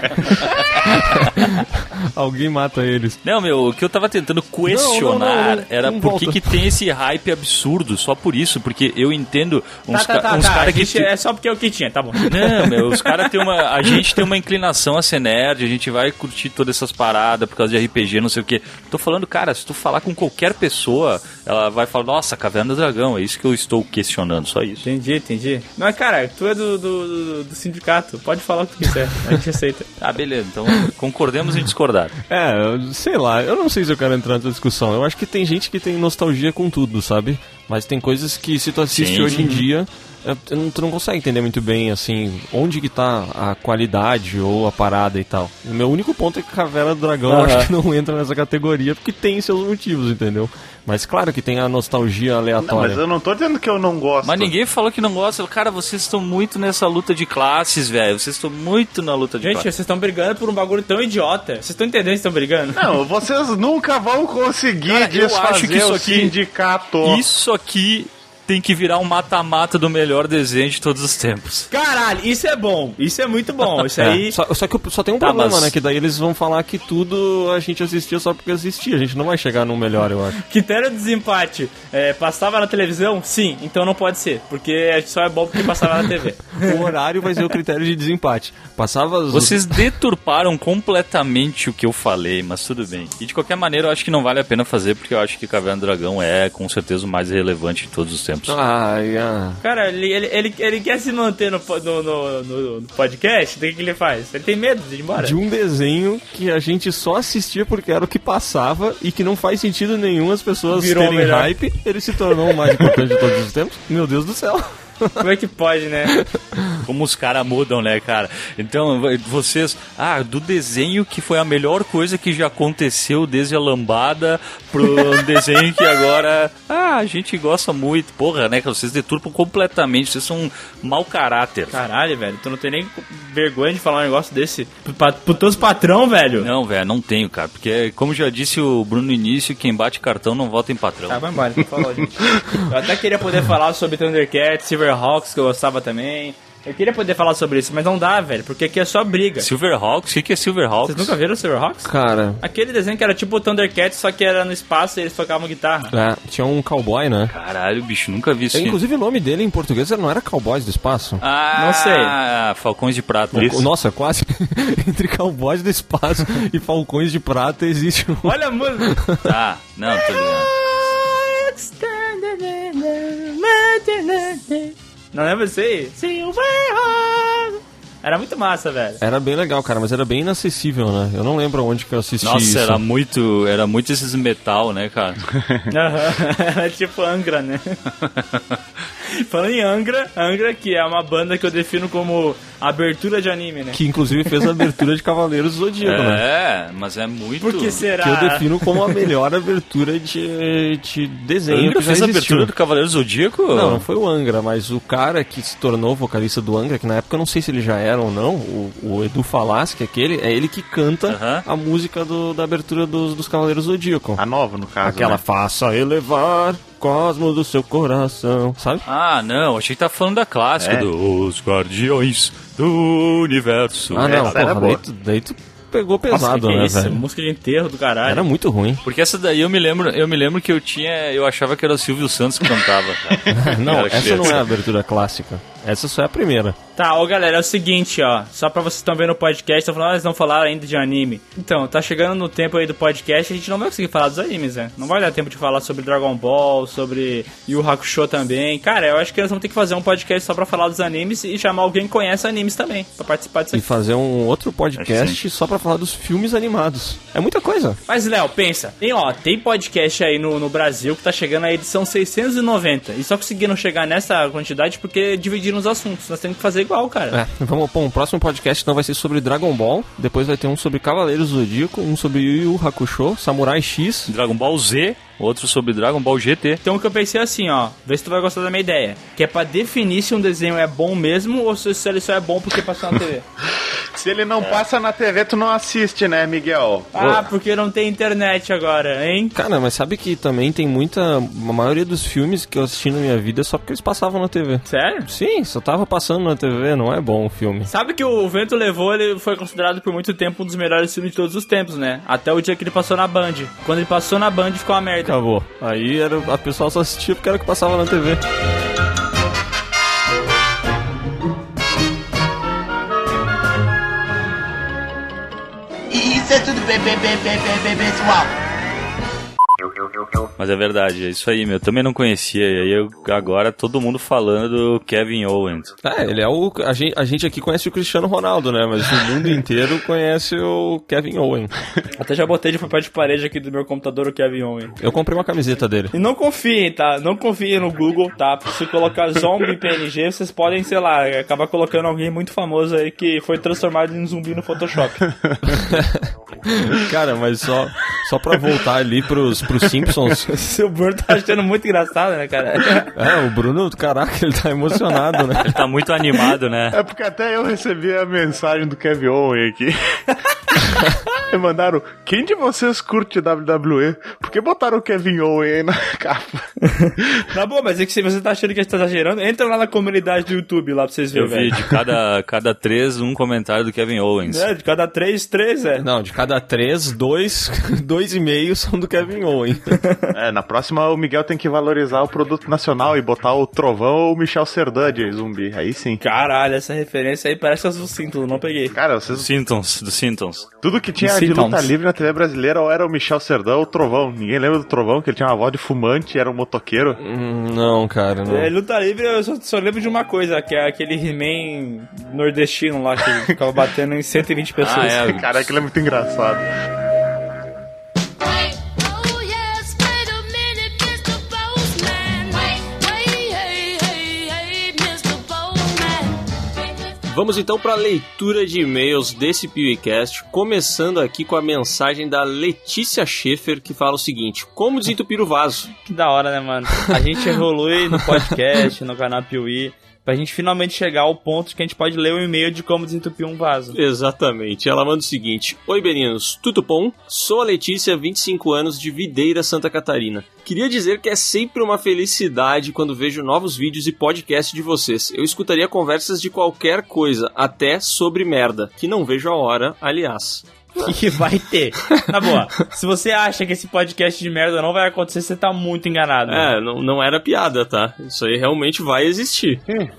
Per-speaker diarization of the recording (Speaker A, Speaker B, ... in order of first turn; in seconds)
Speaker A: 0.8-3.2, 4.7-6.7, 32.3-53.0, 74.0-80.4, 86.6-89.8, 98.5-99.6, 105.2-115.3, 116.1-116.8, 151.8-152.4, 155.9-157.3, 158.5-161.2, 163.3-169.3, 179.0-182.8, 193.7-196.2, 198.0-202.5, 203.5-214.2, 214.8-218.8, 223.9-227.0, 228.1-228.8, 233.3-236.6, 253.5-257.8, 267.1-274.1, 289.3-297.7, 305.0-308.2, 325.8-331.5, 334.8-335.9, 345.4-350.3, 352.9-355.6, 375.8-379.8, 397.0-398.5, 417.0-425.7, 433.7-450.9, 456.3-459.6
Speaker B: 3.2-11.1, 12.3-24.9, 30.0-32.1, 38.9-39.6, 54.2-59.7, 64.9-66.3, 67.0-71.7, 75.2-75.7, 89.3-98.6, 116.8-131.8, 136.4-141.2, 149.4-151.2, 157.3-158.8, 161.2-163.5, 169.2-170.5, 182.2-185.2, 188.1-188.4, 195.8-197.8, 201.5-203.8, 211.1-211.4, 218.9-224.4, 228.8-234.4, 254.8-255.2, 274.1-276.6, 320.4-325.8, 355.4-356.8, 371.1-374.5, 389.1-390.5, 404.6-405.6
Speaker C: 9.9-12.4, 24.8-29.9, 47.3-47.7, 59.4-62.9, 71.7-74.4, 80.4-86.8, 99.6-105.4, 110.7-111.5, 115.2-116.2, 131.7-136.5, 141.1-149.5, 150.8-155.9, 161.6-162.2, 168.2-169.0, 170.1-179.0, 185.7-187.8, 189.1-193.8, 197.4-198.8, 226.1-228.3, 236.8-253.7, 257.9-267.2, 276.6-283.2, 286.9-289.4, 294.7-295.1, 297.7-305.1, 332.0-334.7, 335.9-345.1, 350.3-352.9, 366.6-371.7, 374.3-375.9, 386.0-388.8, 391.0-391.7, 398.3-405.0, 425.9-433.8, 450.8-456.5
Speaker D: 52.6-54.5, 62.8-67.2, 163.3-163.7, 185.4-185.7, 214.2-215.2, 220.6-220.9, 224.0-224.8, 283.9-287.2, 356.7-359.8, 360.6-366.4, 380.1-386.0, 388.7-389.3, 390.6-397.0, 404.9-406.5
Speaker E: 315.9-318.3